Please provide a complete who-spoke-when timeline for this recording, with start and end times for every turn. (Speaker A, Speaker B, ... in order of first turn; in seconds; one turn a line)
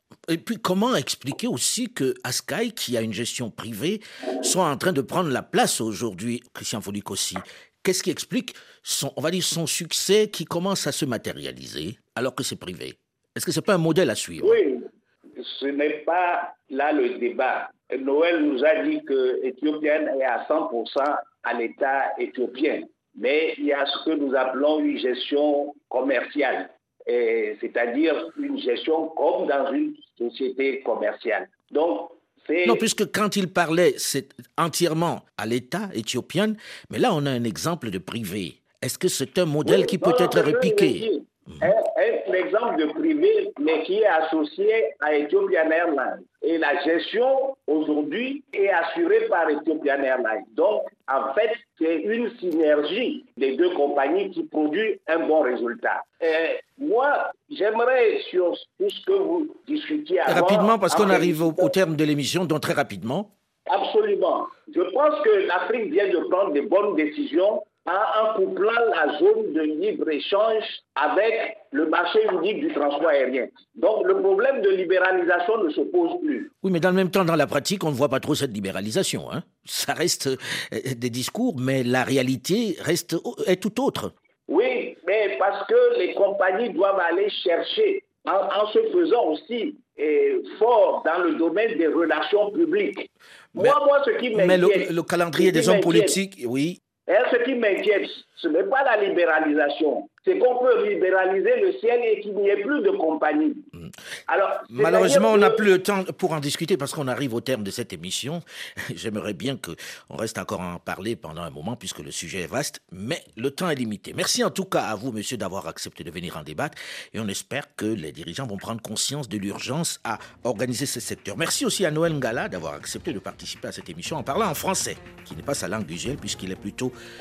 Speaker A: 0.3-14.6
Speaker B: 14.4-32.8
Speaker A: 32.6-41.0
Speaker B: 39.6-61.7
Speaker A: 60.3-63.3
Speaker B: 63.7-76.5
Speaker A: 76.6-84.1
Speaker B: 84.5-96.2
Speaker A: 94.3-96.8
Speaker B: 97.1-103.7
Speaker B: 104.3-105.7
Speaker A: 104.7-126.9